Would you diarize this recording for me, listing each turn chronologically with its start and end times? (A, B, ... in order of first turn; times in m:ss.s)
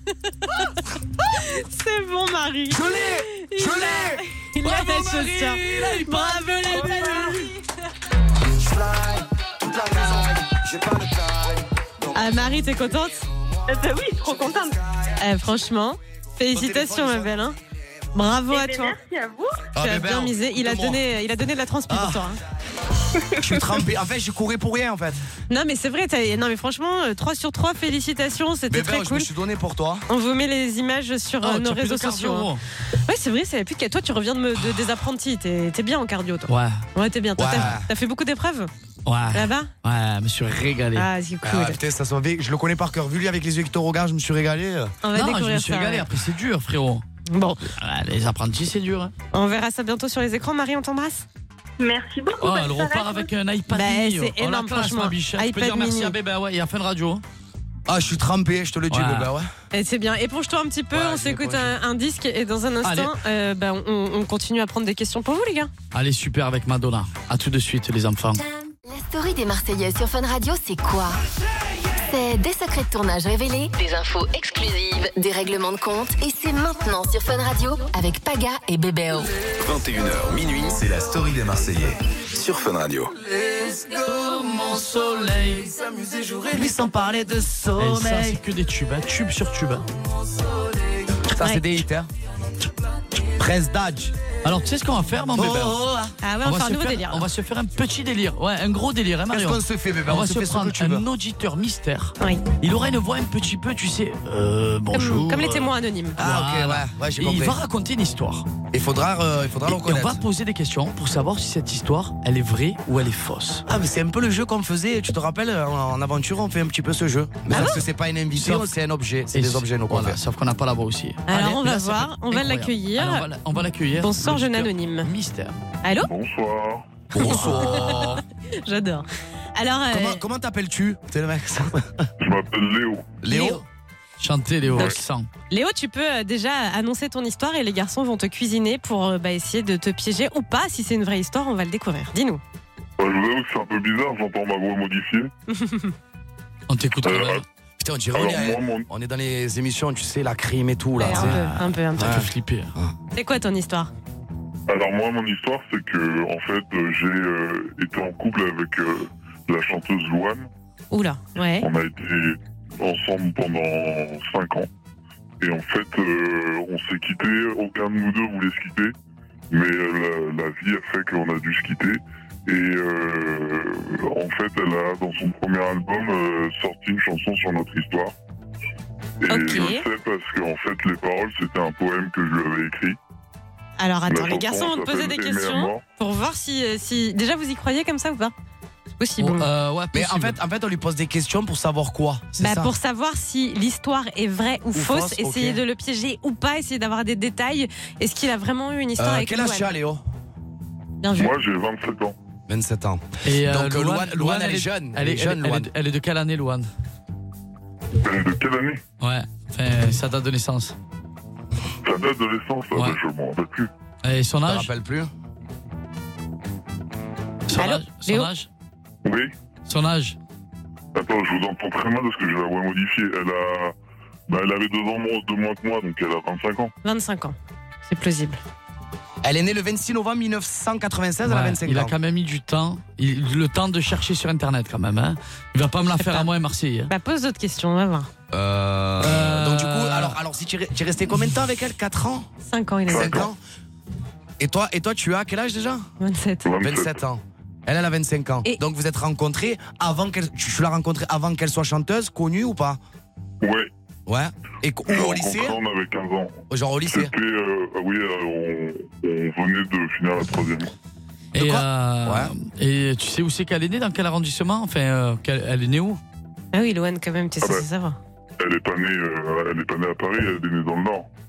0:00.3-0:00.7 A
0:01.3-0:07.5 A
0:02.7-0:04.2 B
0:04.6-0:07.4 C
0:08.6-0:12.5 B
0:12.1-0:13.2 A
0:13.8-0:14.7 D
0:15.2-0:17.6 A
0:16.5-0:17.4 B
0:18.1-0:19.0 A
0:18.7-0:19.4 D
0:19.7-0:21.0 B
0:19.8-0:22.4 A
0:21.9-0:22.3 B
0:23.4-0:25.2 B
0:25.5-0:29.3 A
0:28.7-0:30.1 B
0:30.1-0:32.5 A
0:31.4-0:32.6 C
0:33.1-0:38.7 A
0:36.5-0:36.8 C
0:37.4-0:37.9 B
0:39.1-0:41.1 C
0:39.3-0:39.7 A
0:41.0-0:41.8 A
0:41.4-0:44.9 B
0:45.0-0:46.0 A
0:45.1-0:47.0 C
0:47.3-0:47.7 A
0:47.8-0:49.1 C
0:49.3-0:51.2 A
0:51.8-0:53.3 D
0:52.4-0:57.2 C
0:53.7-0:56.1 A
0:57.9-0:59.5 B
0:58.9-0:59.3 C
0:59.7-1:05.7 A
1:00.9-1:01.7 B
1:02.8-1:03.1 C
1:05.9-1:08.4 C
1:08.8-1:11.2 E
1:12.0-1:19.3 E
1:19.6-1:23.1 F
1:23.5-1:26.1 C
1:26.3-1:28.4 B
1:27.8-1:29.9 C
1:31.3-1:32.1 B
1:31.4-1:31.6 A
1:33.2-1:34.2 B
1:34.4-1:35.8 C
1:35.4-1:36.1 B
1:36.2-1:37.3 A
1:36.4-1:48.5 C
1:39.3-1:41.0 B
1:42.2-1:42.4 A
1:44.9-1:46.2 A
1:46.2-1:47.6 B
1:48.7-1:50.2 B
1:49.7-1:53.6 C
1:53.7-2:00.2 B
1:57.5-1:57.8 A
1:58.4-1:58.7 C
1:59.3-2:05.6 C
2:01.3-2:03.2 A
2:04.0-2:05.1 A
2:05.8-2:06.1 A
2:06.0-2:07.0 G
2:07.1-2:08.2 B
2:07.2-2:10.2 A
2:07.2-2:08.2 C
2:09.9-2:12.1 B
2:12.2-2:13.2 G
2:13.2-2:13.6 B
2:13.3-2:13.6 A
2:14.2-2:15.3 C
2:15.5-2:22.4 A
2:23.0-2:25.3 G
2:25.5-2:25.9 A
2:26.7-2:27.4 C
2:27.0-2:27.4 G
2:27.8-2:31.4 B
2:28.1-2:28.9 G
2:31.0-2:32.2 A
2:31.1-2:32.7 C
2:32.0-2:32.9 B
2:33.1-2:33.9 A
2:34.7-2:40.5 G
2:40.9-2:41.7 A
2:41.6-2:44.7 G
2:45.4-2:48.9 G
2:49.5-2:58.1 G
2:59.2-3:03.0 G
2:59.3-2:59.8 A
3:03.8-3:08.3 A
3:04.1-3:05.8 G
3:09.0-3:09.4 A
3:09.2-3:10.4 C
3:09.9-3:12.7 B
3:12.4-3:19.7 A
3:14.7-3:15.6 B
3:19.0-3:20.0 B
3:21.0-3:21.3 A
3:21.2-3:22.2 G
3:22.5-3:25.7 B
3:23.2-3:26.7 C
3:28.0-3:28.8 G
3:29.0-3:30.7 C
3:31.8-3:33.7 G
3:34.0-3:34.7 C
3:34.4-3:35.1 B
3:37.5-3:38.5 C
3:37.6-3:38.3 A
3:39.0-3:39.3 G
3:39.7-3:40.2 C
3:41.0-3:43.7 G
3:44.3-3:46.7 G
3:46.8-3:47.4 A
3:47.9-3:48.4 A
3:49.2-3:51.9 B
3:51.3-3:56.9 C
3:56.0-3:56.3 A
3:56.9-3:58.1 A
3:58.3-4:02.3 B
3:59.0-4:00.2 C
4:02.4-4:03.3 A
4:02.9-4:03.4 B
4:04.4-4:05.8 B
4:06.0-4:06.5 A
4:06.4-4:07.0 G
4:06.6-4:12.8 B
4:13.4-4:13.7 G
4:14.1-4:15.6 B
4:14.9-4:20.7 G
4:16.5-4:17.1 B
4:21.3-4:26.0 C
4:21.4-4:22.3 B
4:26.5-4:28.0 A
4:28.4-4:31.1 G